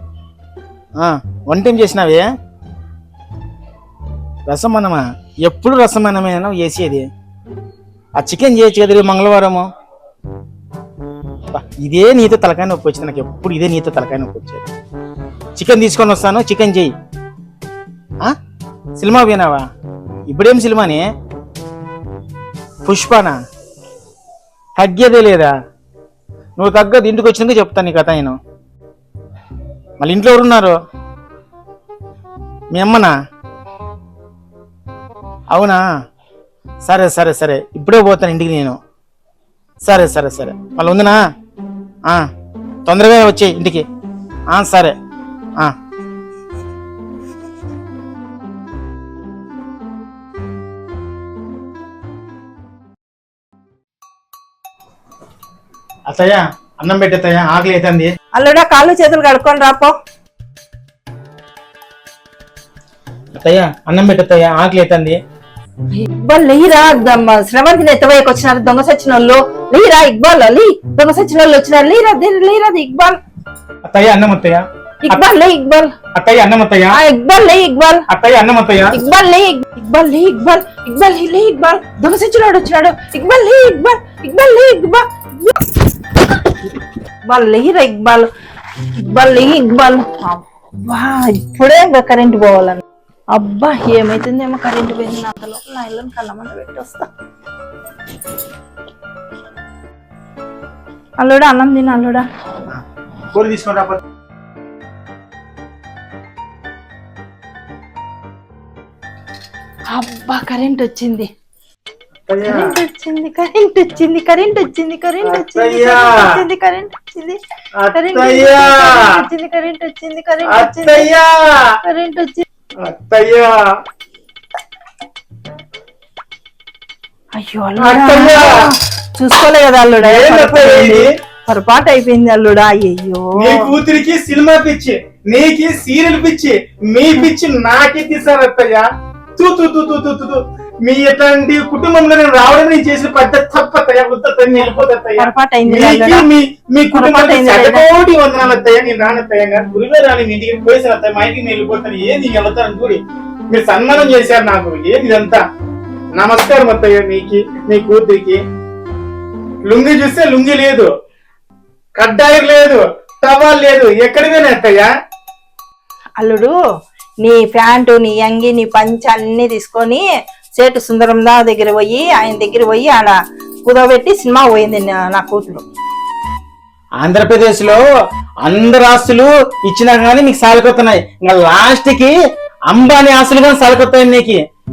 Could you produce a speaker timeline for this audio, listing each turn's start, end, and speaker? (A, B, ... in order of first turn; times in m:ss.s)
0:01.0-0:02.3 A
0:04.5-0:07.0 A
0:08.2-0:09.7 A
0:11.5-0:14.7 A
0:15.6-0:16.9 A
0:19.0-0:19.6 A
0:20.3-0:21.0 A
0:22.8-0:23.4 A
0:24.8-0:25.5 A
0:26.6-0:28.4 A
0:30.0-0:30.7 A
0:32.7-0:33.1 A
0:35.5-0:35.8 A
0:36.9-0:38.8 A
0:39.8-0:41.2 A
0:42.9-0:43.8 A
0:44.5-0:44.9 A
0:56.1-0:58.1 A
0:58.3-0:59.9 B
1:03.4-1:05.2 A
1:05.9-1:13.2 B
1:13.8-1:15.2 A
1:15.0-1:15.9 B
1:16.1-1:17.0 A
1:16.9-1:18.1 B
1:18.1-1:19.0 A
1:18.9-1:25.8 B
1:27.2-1:28.3 B
1:29.0-1:37.1 B
1:41.2-1:42.2 B
1:42.7-1:44.0 A
1:49.9-1:51.3 B
1:52.3-1:52.7 A
1:52.4-1:57.4 B
1:55.2-1:56.3 A
1:57.8-1:59.1 A
1:57.9-2:01.1 B
2:00.4-2:01.8 A
2:01.8-2:02.4 B
2:02.8-2:03.6 A
2:07.3-2:13.7 B
2:07.8-2:08.7 A
2:10.0-2:11.0 A
2:13.4-2:18.9 A
2:19.4-2:33.0 A
2:25.2-2:26.3 B
2:26.9-2:27.8 B
2:33.5-2:35.4 A
2:36.2-2:38.4 A
2:39.7-2:40.9 A
2:42.0-2:44.9 A
2:46.2-2:46.6 B
2:47.2-2:50.0 B
2:50.6-2:55.6 B
2:57.0-2:57.8 A
2:58.4-3:02.1 A
3:02.7-3:04.4 A